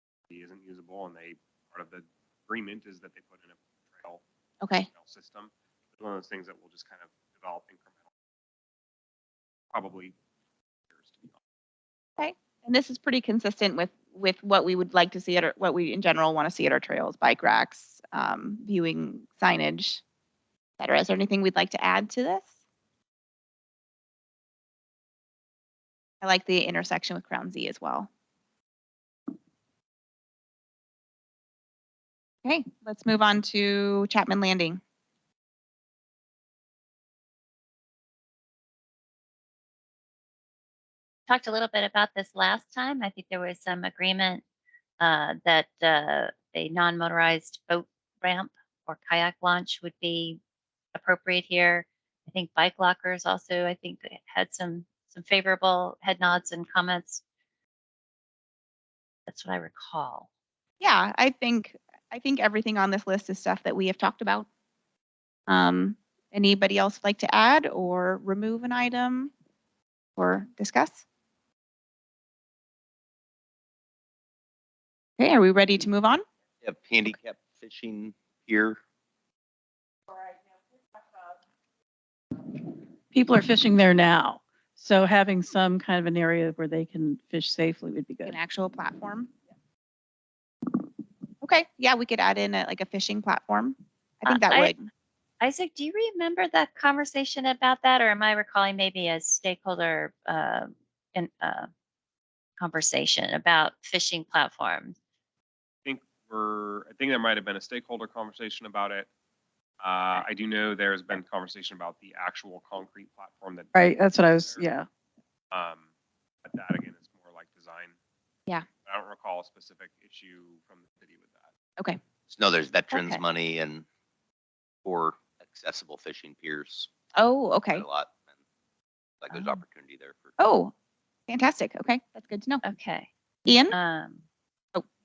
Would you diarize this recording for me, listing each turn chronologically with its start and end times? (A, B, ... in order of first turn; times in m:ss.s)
0:00.3-0:04.2 A
0:04.6-0:04.9 B
0:04.9-0:07.9 A
0:09.7-0:10.1 A
0:10.9-0:11.3 A
0:12.2-0:20.0 B
0:20.8-0:22.5 B
0:26.2-0:28.1 B
0:32.4-0:34.8 B
0:41.3-0:44.4 C
0:45.0-0:50.4 C
0:50.9-0:57.2 C
0:59.3-1:00.2 C
1:00.8-1:04.5 B
1:05.5-1:09.3 B
1:10.2-1:11.0 B
1:15.2-1:16.2 B
1:16.6-1:18.8 D
1:23.1-1:28.4 E
1:28.2-1:29.3 B
1:31.4-1:34.9 B
1:34.2-1:34.7 C
1:35.4-1:41.7 C
1:42.6-1:44.9 C
1:45.8-1:49.1 A
1:49.8-1:54.7 A
1:53.7-1:54.9 E
1:55.5-1:55.9 A
1:56.4-1:58.0 A
1:58.8-2:01.5 A
2:02.3-2:03.8 D
2:02.9-2:03.2 B
2:04.8-2:06.9 D
2:07.2-2:07.8 B
2:07.7-2:08.3 D
2:09.2-2:10.4 D
2:09.3-2:09.6 C
2:10.4-2:10.7 B
2:11.3-2:12.6 B
2:12.6-2:13.1 C
2:13.4-2:13.7 B
2:13.7-2:14.2 C